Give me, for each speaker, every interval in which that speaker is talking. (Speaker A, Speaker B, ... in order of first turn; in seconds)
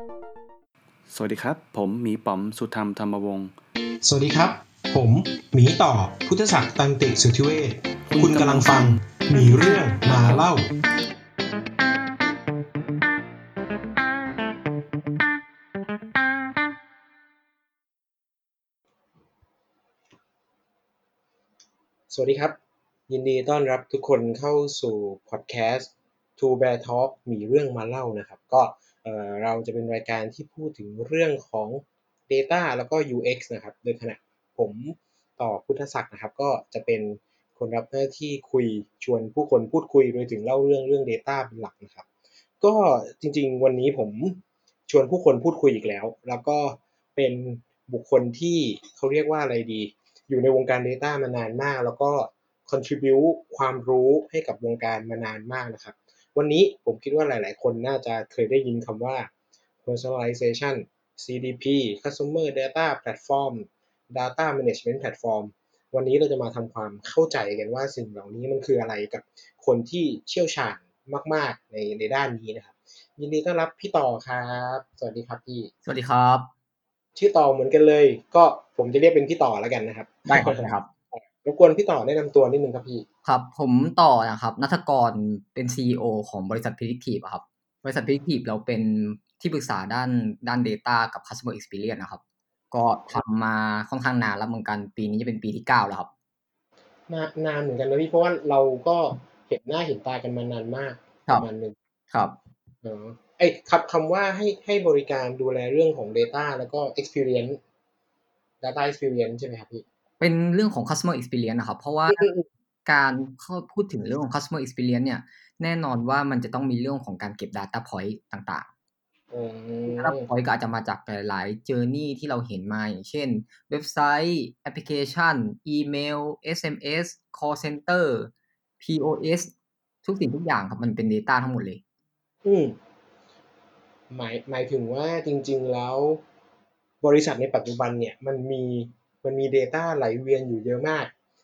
Speaker A: 1.1-3.5, 8.1-10.4
Speaker B: 4.0-10.7, 22.1-22.6, 23.1-42.0, 42.6-59.3, 59.8-75.7, 77.2-83.0, 97.1-101.7, 102.8-107.6, 108.6-109.8, 112.1-112.4, 119.3-120.3, 132.4-132.8, 134.1-136.2, 137.0-141.1
Speaker C: 75.8-76.5, 80.3-80.9, 83.2-92.2, 92.7-96.1, 110.2-112.3, 112.8-118.7, 119.9-129.5, 130.0-131.8